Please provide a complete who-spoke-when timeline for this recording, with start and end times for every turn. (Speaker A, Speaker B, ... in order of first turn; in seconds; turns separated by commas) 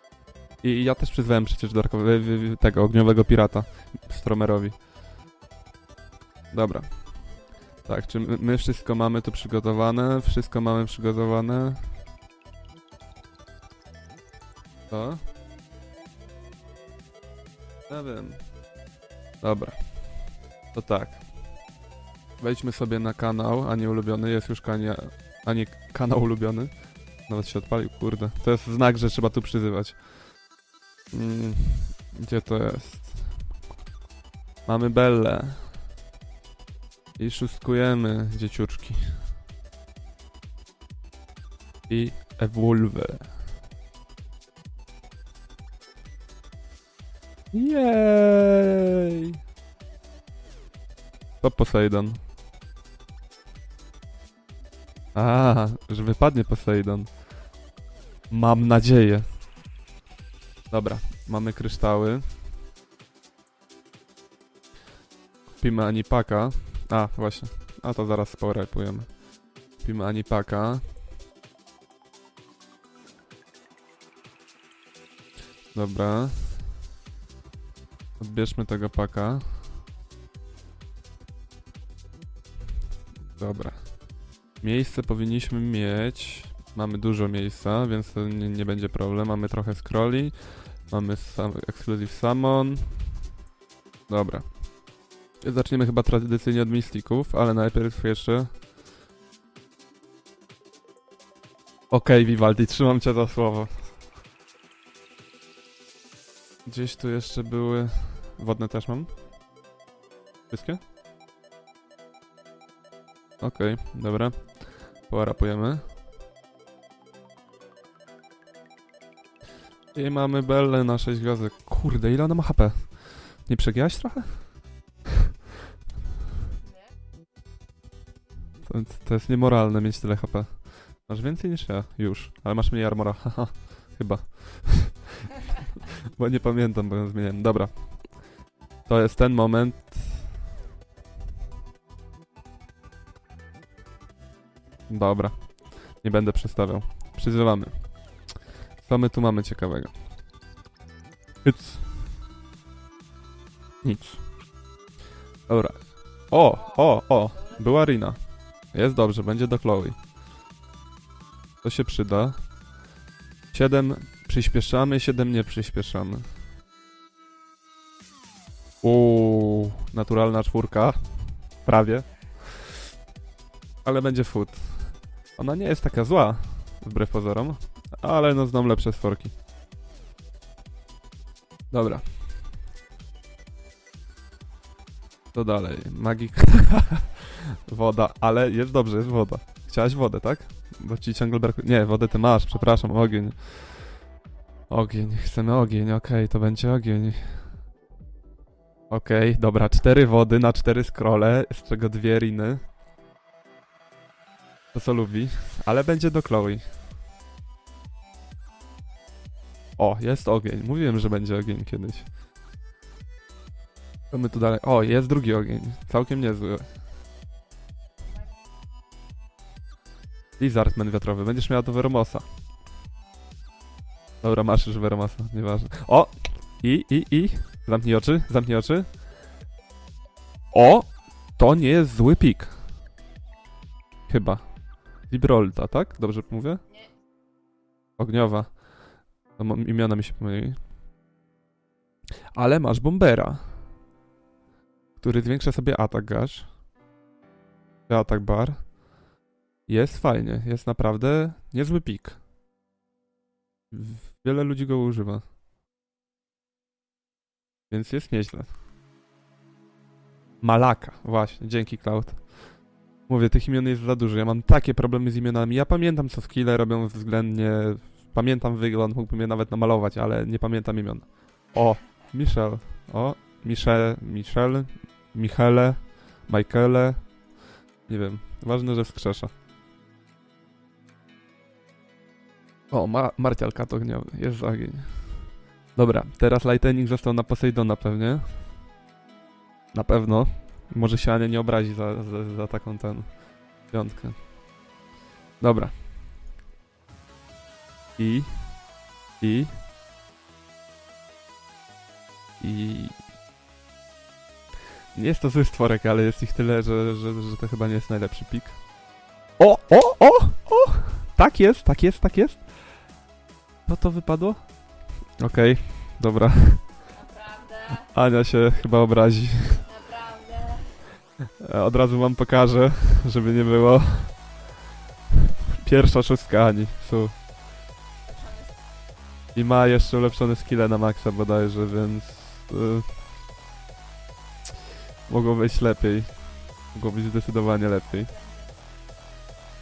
Speaker A: 0.6-4.8, Speaker A: 6.5-7.1, Speaker A: 7.8-11.9, Speaker A: 14.9-15.2, Speaker A: 17.9-18.5, Speaker A: 19.4-20.1, Speaker A: 20.7-21.3, Speaker A: 22.4-30.1, Speaker A: 31.1-33.5, Speaker A: 34.6-35.8, Speaker A: 37.2-39.3, Speaker A: 41.9-43.4, Speaker A: 47.5-49.3, Speaker A: 51.4-52.2, Speaker A: 55.1-57.2, Speaker A: 58.3-59.4, Speaker A: 60.7-62.3, Speaker A: 65.5-69.2, Speaker A: 69.8-70.9, Speaker A: 75.7-76.8, Speaker A: 78.2-79.7, Speaker A: 83.3-84.0, Speaker A: 84.6-93.2, Speaker A: 94.1-94.6, Speaker A: 95.4-98.6, Speaker A: 101.9-104.0, Speaker A: 106.7-109.2, Speaker A: 110.5-110.8, Speaker A: 113.4-115.9, Speaker A: 119.9-124.5, Speaker A: 128.6-135.0, Speaker A: 136.1-138.2, Speaker A: 138.9-140.3, Speaker A: 144.9-148.3, Speaker A: 148.8-150.0, Speaker A: 151.4-152.0, Speaker A: 153.8-154.3, Speaker A: 155.5-160.0, Speaker B: 156.5-157.8, Speaker A: 161.6-162.5, Speaker A: 163.5-166.3, Speaker A: 168.8-172.5, Speaker A: 173.8-179.3, Speaker A: 181.7-182.2, Speaker A: 185.3-193.9, Speaker B: 192.0-193.2, Speaker A: 194.7-197.6, Speaker A: 198.9-202.7, Speaker A: 204.7-206.8, Speaker A: 209.8-212.1, Speaker A: 214.1-216.7, Speaker B: 218.0-218.3, Speaker A: 220.4-222.3, Speaker A: 224.2-229.0, Speaker A: 230.5-232.6, Speaker A: 234.1-236.6, Speaker A: 238.0-238.6, Speaker A: 239.3-240.6, Speaker A: 242.3-243.7, Speaker A: 245.0-246.6, Speaker A: 247.9-248.7, Speaker A: 249.7-252.2, Speaker A: 253.7-255.3, Speaker A: 257.7-258.6, Speaker A: 260.4-262.5, Speaker A: 263.1-277.2, Speaker A: 277.8-279.3, Speaker A: 282.7-288.5, Speaker A: 289.7-294.3, Speaker A: 295.4-295.8, Speaker A: 298.0-298.6, Speaker A: 299.2-299.6, Speaker A: 302.4-303.0, Speaker A: 304.9-308.6, Speaker A: 309.4-312.6, Speaker A: 313.7-316.8, Speaker B: 316.9-317.9, Speaker A: 317.9-319.6, Speaker B: 319.6-320.8, Speaker A: 321.4-324.3, Speaker A: 325.6-327.2, Speaker B: 328.1-328.5, Speaker A: 329.3-332.9, Speaker A: 335.1-338.1, Speaker B: 337.9-338.5